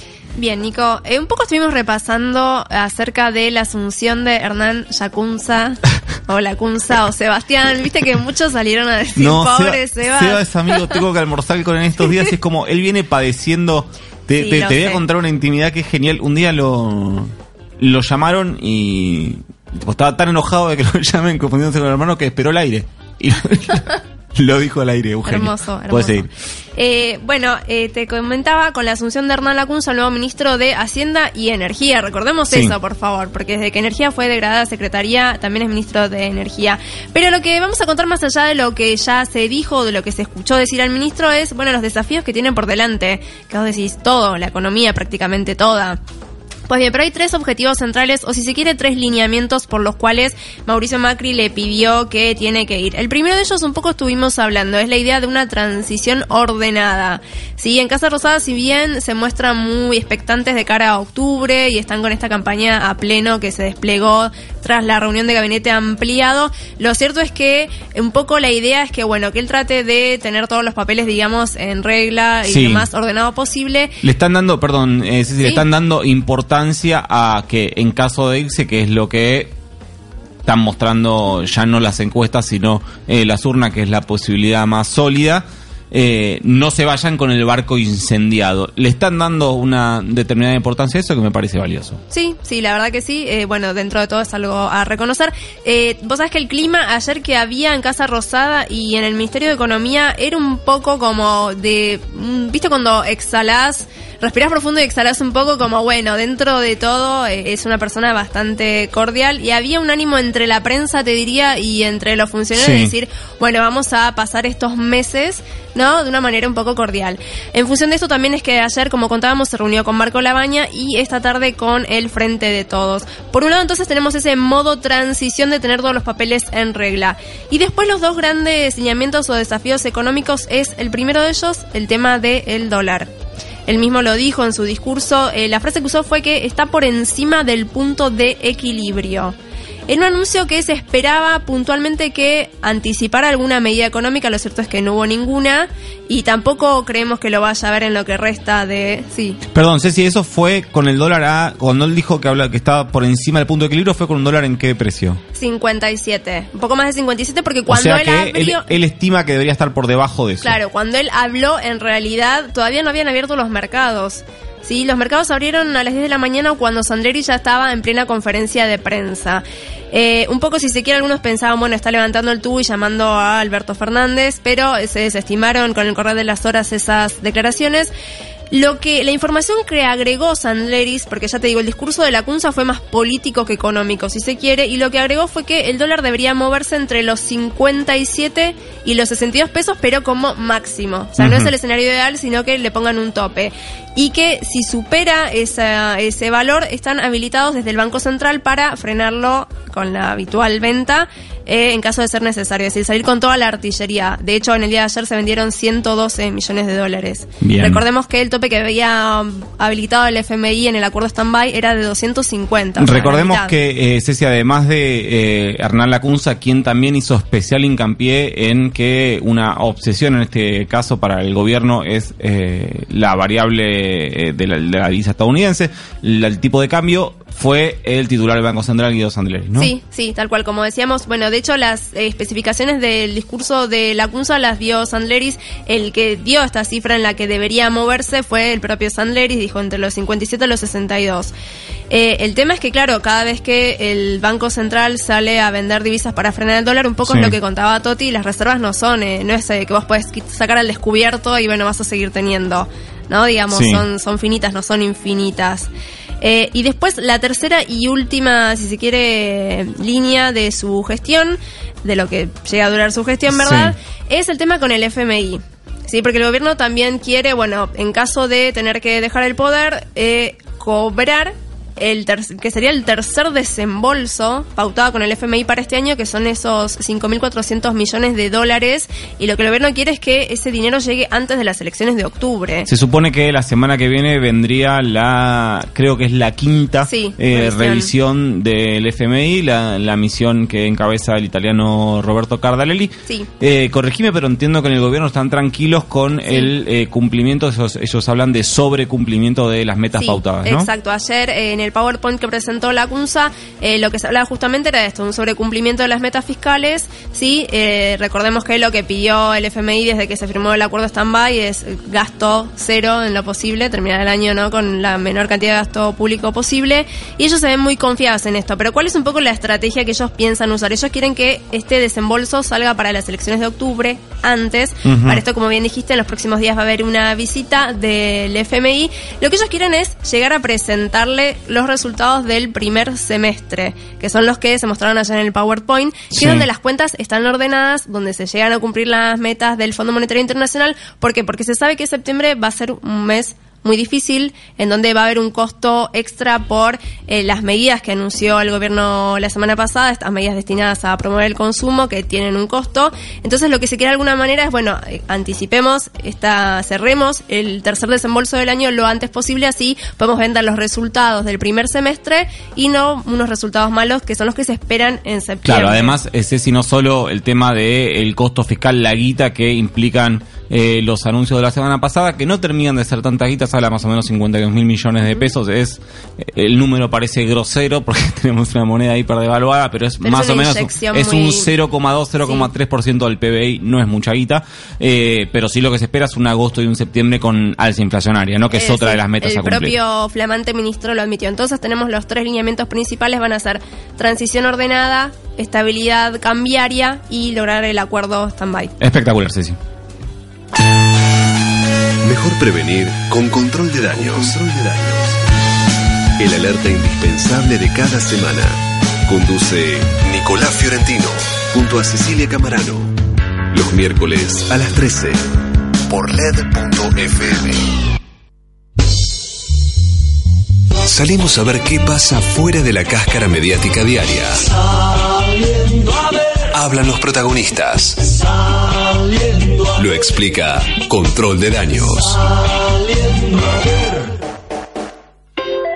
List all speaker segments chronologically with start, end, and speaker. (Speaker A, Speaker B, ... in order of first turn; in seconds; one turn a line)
Speaker A: 0.4-10.9
Speaker B: 9.2-26.3
Speaker A: 14.4-15.0
Speaker A: 25.2-46.0
Speaker B: 32.5-32.8
Speaker A: 46.7-74.0
Speaker B: 72.5-72.9
Speaker B: 74.0-79.5
Speaker B: 80.5-92.0
Speaker A: 92.1-133.1
Speaker B: 112.5-112.9
Speaker A: 133.7-139.3
Speaker A: 139.9-149.4
Speaker B: 149.5-155.2
Speaker A: 155.3-158.7
Speaker B: 157.7-160.6
Speaker A: 160.4-177.9
Speaker A: 178.5-213.5
Speaker B: 191.2-191.5
Speaker B: 207.4-207.8
Speaker B: 212.8-229.7
Speaker A: 229.6-241.3
Speaker A: 241.9-255.7
Speaker B: 247.1-247.3
Speaker B: 253.5-253.8
Speaker A: 256.2-282.7
Speaker B: 263.3-263.7
Speaker B: 282.7-300.7
Speaker A: 286.9-287.9
Speaker A: 296.3-296.5
Speaker A: 299.9-366.0
Speaker B: 324.9-325.2
Speaker B: 336.1-336.5
Speaker B: 365.4-389.8
Speaker A: 380.0-381.5
Speaker A: 388.5-398.7
Speaker B: 398.8-399.6
Speaker C: 402.0-405.2
Speaker C: 406.2-412.9
Speaker C: 413.5-415.2
Speaker C: 415.9-417.7
Speaker C: 420.9-424.5
Speaker C: 426.5-428.2
Speaker C: 429.6-432.2